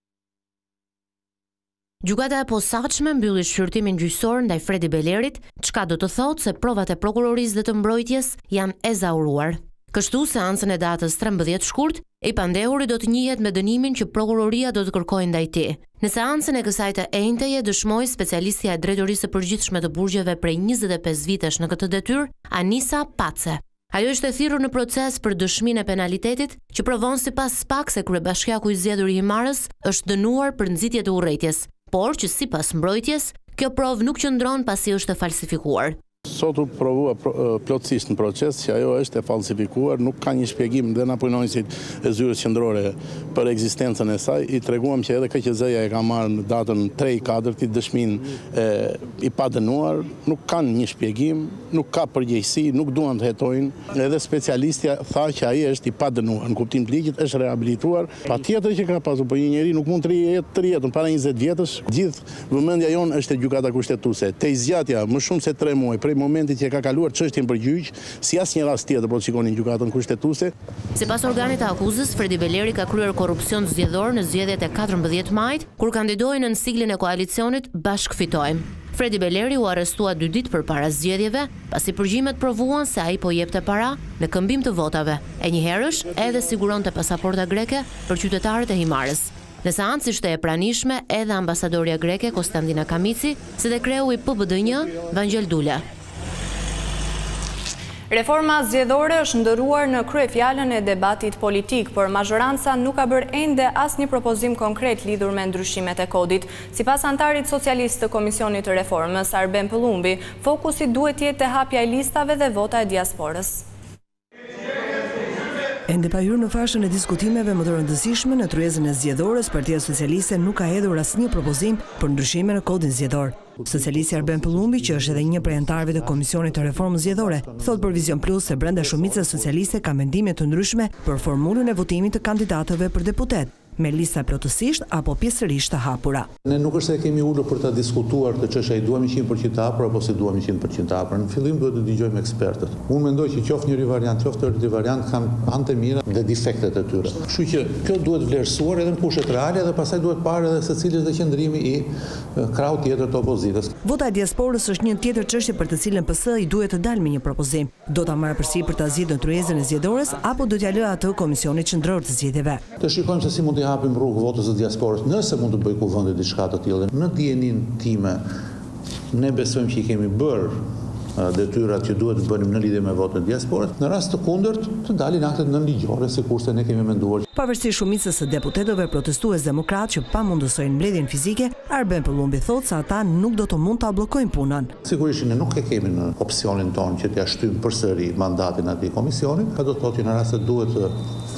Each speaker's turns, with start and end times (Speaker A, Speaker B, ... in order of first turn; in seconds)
Speaker A: 2.0-36.0, 70.9-95.8
Speaker B: 36.3-70.5
Speaker C: 98.1-113.6
Speaker D: 115.9-136.3, 153.8-162.6, 177.4-184.7
Speaker E: 123.5-129.6, 136.4-153.7, 162.8-168.2, 169.1-170.6, 171.1-177.3, 184.8-190.9